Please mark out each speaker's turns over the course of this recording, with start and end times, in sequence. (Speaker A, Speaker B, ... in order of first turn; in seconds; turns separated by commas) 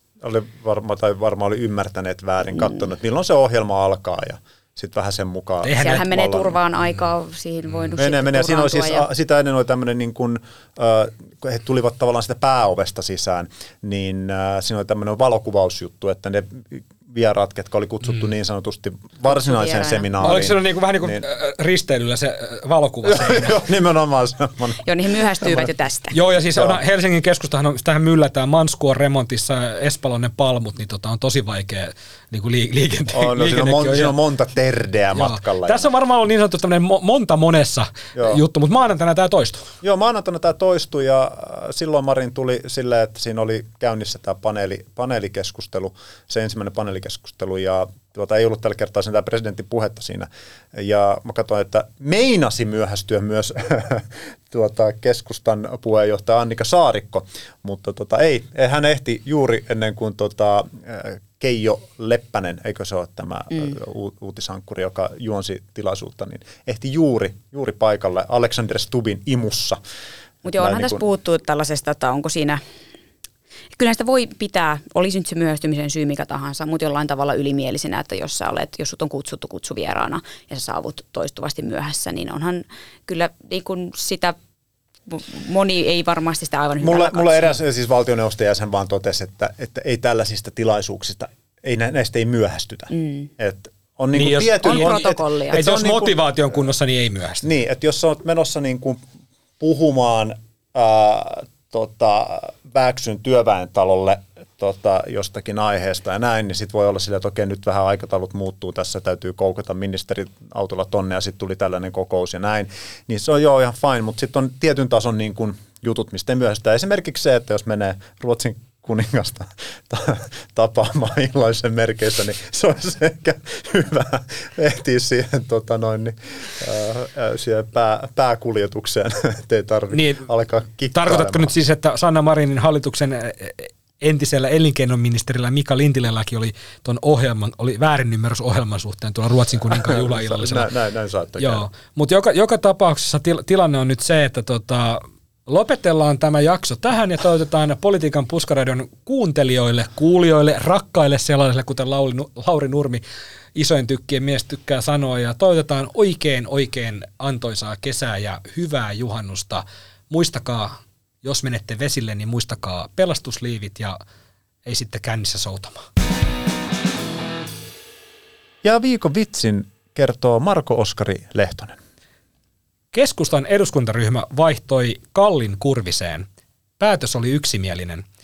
Speaker A: 0.2-6.6, Speaker B: 5.6-6.0, Speaker C: 5.8-9.1, Speaker A: 8.0-21.2, Speaker C: 19.3-20.1, Speaker B: 20.2-23.6, Speaker A: 23.1-24.8, Speaker C: 24.8-26.2, Speaker A: 25.4-25.7, Speaker B: 26.1-34.1, Speaker A: 26.5-26.8, Speaker A: 33.1-35.9, Speaker B: 35.1-39.7, Speaker A: 38.1-38.4, Speaker A: 39.8-69.8, Speaker A: 70.4-71.0, Speaker C: 70.4-72.6, Speaker C: 73.7-84.4, Speaker C: 85.1-87.5, Speaker A: 86.8-96.1, Speaker C: 92.9-93.3, Speaker B: 94.1-97.5, Speaker C: 94.6-95.7, Speaker A: 97.4-99.0, Speaker A: 99.6-131.5, Speaker B: 129.9-130.3, Speaker B: 130.9-140.7, Speaker A: 139.7-141.6, Speaker B: 141.4-153.0, Speaker B: 153.6-164.0, Speaker B: 164.6-165.9, Speaker A: 168.6-171.8, Speaker B: 172.9-176.3, Speaker B: 176.8-178.0